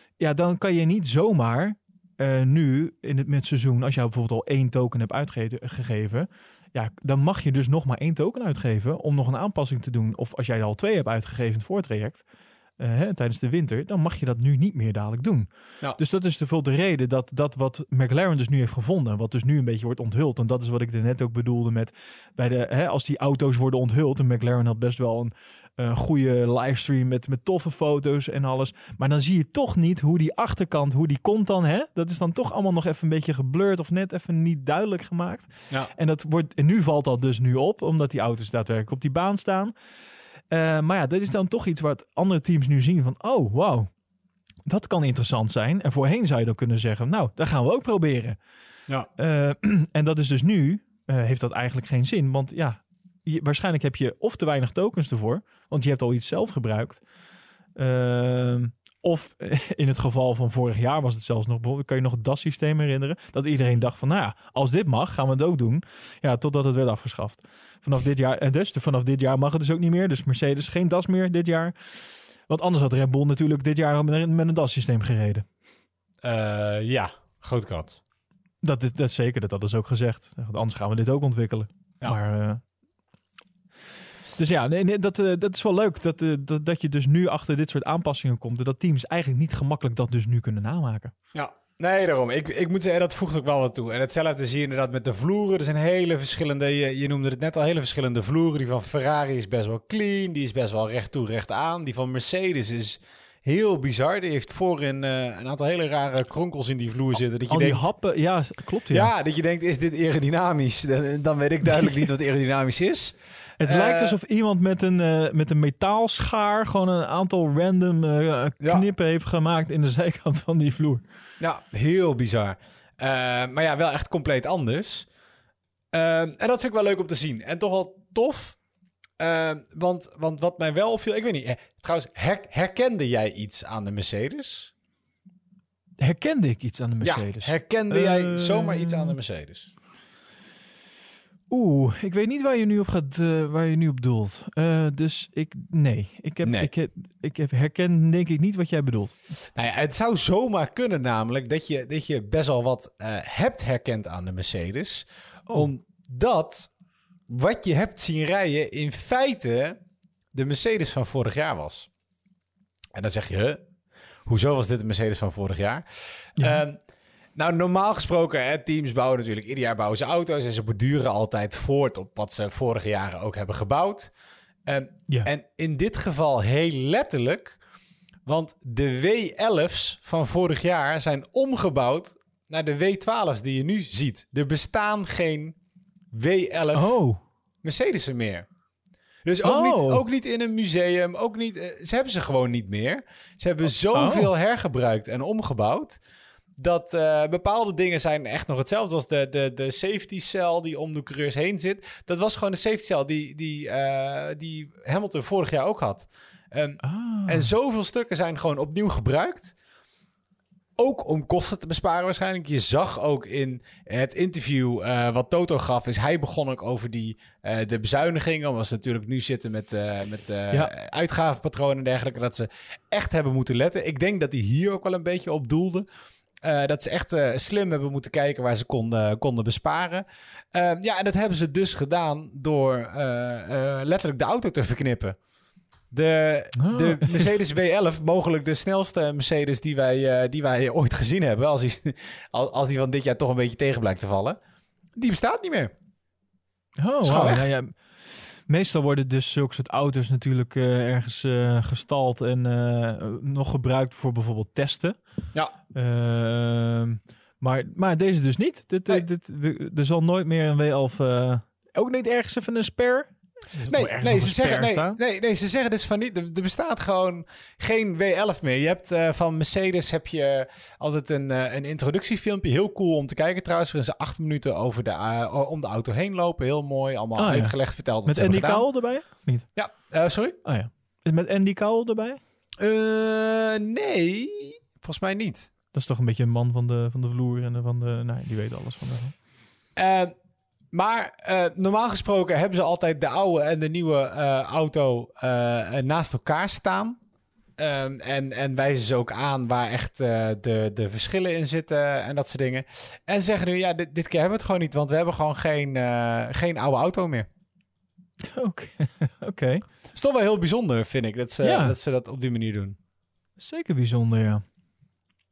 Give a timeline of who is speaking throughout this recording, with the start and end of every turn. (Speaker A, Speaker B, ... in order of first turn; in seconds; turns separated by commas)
Speaker A: 0.2-12.2, Speaker A: 12.8-39.7, Speaker A: 40.5-43.9, Speaker A: 44.6-48.4, Speaker A: 49.1-57.0, Speaker A: 57.8-71.7, Speaker A: 72.5-75.5, Speaker B: 76.2-78.0, Speaker A: 78.6-82.6, Speaker A: 84.4-91.1, Speaker B: 91.3-107.9, Speaker A: 107.5-109.1, Speaker B: 108.9-114.2, Speaker A: 113.6-121.0, Speaker B: 121.4-125.1, Speaker B: 125.9-128.6, Speaker B: 129.2-134.7, Speaker A: 136.0-139.1, Speaker B: 137.0-139.7, Speaker A: 141.5-149.2, Speaker B: 146.4-146.7, Speaker B: 149.5-156.7, Speaker B: 157.3-159.8, Speaker B: 160.3-161.9, Speaker B: 162.9-163.6, Speaker B: 164.2-166.8, Speaker A: 166.4-166.6, Speaker B: 167.3-174.1, Speaker B: 174.7-177.6, Speaker B: 178.2-185.6, Speaker B: 186.1-187.0, Speaker A: 186.7-187.2, Speaker B: 187.6-188.4, Speaker B: 189.2-196.0, Speaker A: 189.4-190.0, Speaker A: 193.9-194.3, Speaker B: 196.6-209.5, Speaker A: 206.8-207.5, Speaker B: 210.8-225.8, Speaker B: 226.4-235.2, Speaker B: 235.9-244.4, Speaker A: 236.6-237.3, Speaker B: 244.9-245.7, Speaker A: 246.8-255.0, Speaker B: 247.0-247.4, Speaker A: 255.7-265.0, Speaker B: 263.7-278.6, Speaker A: 277.1-279.5, Speaker B: 279.5-280.4, Speaker A: 280.4-282.2, Speaker B: 282.6-285.5, Speaker A: 285.7-289.1, Speaker B: 289.8-290.1, Speaker B: 290.7-297.0, Speaker B: 297.6-307.3, Speaker A: 308.3-309.6, Speaker B: 309.9-312.8, Speaker A: 311.4-311.8, Speaker A: 313.4-314.4